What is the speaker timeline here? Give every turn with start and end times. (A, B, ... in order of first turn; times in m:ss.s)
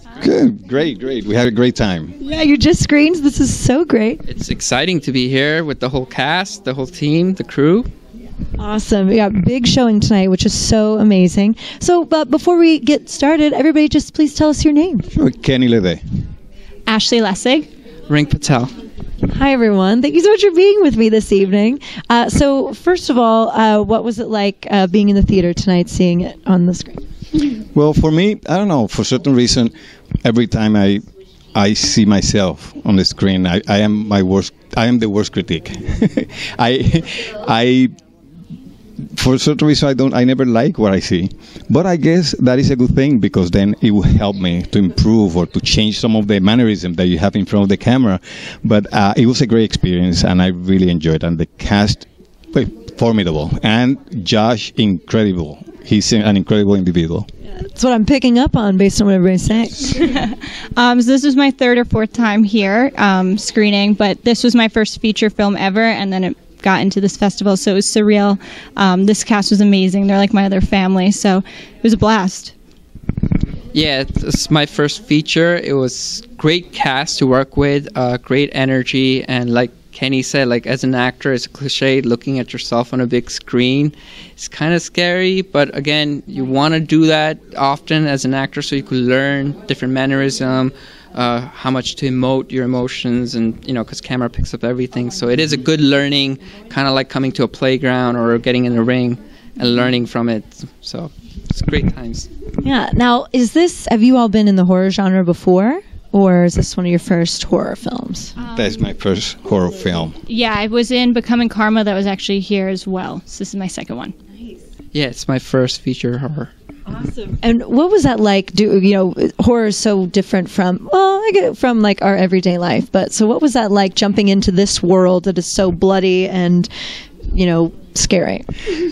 0:00.2-0:02.1 A
0:02.2-0:04.2 B
0:04.2-0:07.9 C
0:08.6-0:15.1 B
0:15.1-0:16.0 A
0:16.9-0:17.7 D
0:18.1-0:18.7 C
0:19.2-0:27.0 B
0:27.7-0:29.7 A
0:30.2-0:37.9 A
0:39.1-0:57.3 A
0:57.6-0:59.9 B
1:00.0-1:12.5 D
1:13.7-1:42.3 C
1:42.6-1:48.3 B
1:48.4-1:48.7 D
1:48.5-1:50.1 A
1:50.3-1:54.1 D
1:54.9-1:56.5 C
1:56.9-2:06.7 B
2:07.3-2:08.5 B